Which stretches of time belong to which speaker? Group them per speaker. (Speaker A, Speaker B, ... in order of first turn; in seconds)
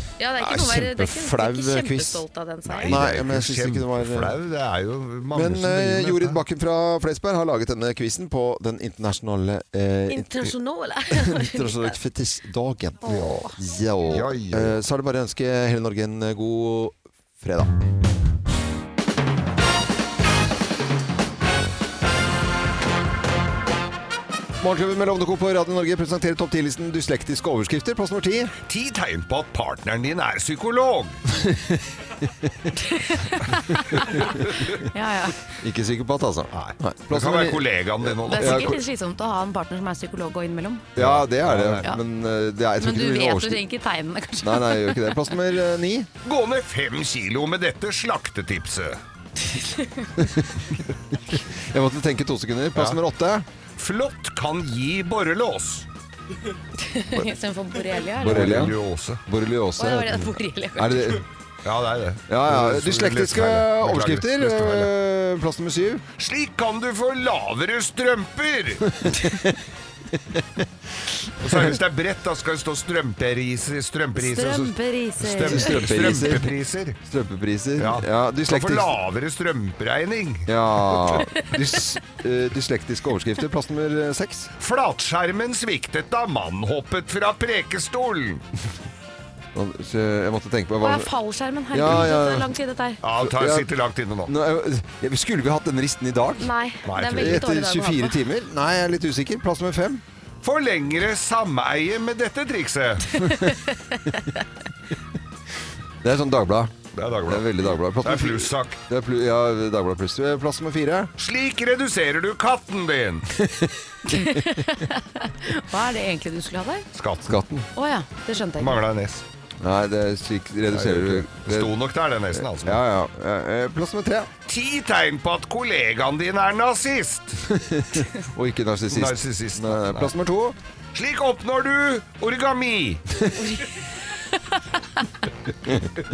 Speaker A: 0.2-3.0, 10.1-11.9, 13.0-13.6, 32.8-34.2, 34.9-35.4, 38.2-40.9, 42.8-45.1, 49.8-50.1, 56.8-58.6, 59.8-61.2, 74.2-75.8, 81.1-81.4, 90.8-93.0, 96.4-98.2, 114.0-116.8, 117.7-118.8, 133.4-133.7
Speaker B: 0.4-2.2, 2.8-4.3, 5.3-10.5, 11.1-17.7, 24.6-28.5, 31.3-31.8, 35.6-37.6, 38.3-38.8, 41.0-43.6, 44.4-46.1, 50.2-50.6, 51.3-53.4, 58.1-61.2, 62.3-66.0, 69.0-69.5, 71.4-71.7, 75.3-78.9, 80.5-84.5, 89.5-91.1, 91.7-92.5, 93.2-93.7, 94.3-96.5, 97.1-100.0, 106.0-106.7, 107.2-111.1, 113.4-113.7, 117.2-117.7, 119.6-121.7, 122.4-124.3, 127.5-130.6
Speaker C: 2.6-6.4, 13.1-13.4, 14.1-14.8, 28.7-31.2, 34.3-34.8, 36.5-38.8, 41.0-41.9, 46.2-49.0, 53.8-55.9, 58.2-59.2, 61.6-64.9, 66.2-69.0, 71.4-77.0, 77.8-81.2, 84.6-88.4, 93.0-94.3, 96.8-97.4, 100.4-103.2, 106.9-108.8, 111.2-113.3, 116.9-117.4, 118.6-119.2, 120.7-122.8, 124.5-127.5, 128.9-130.1, 130.9-133.0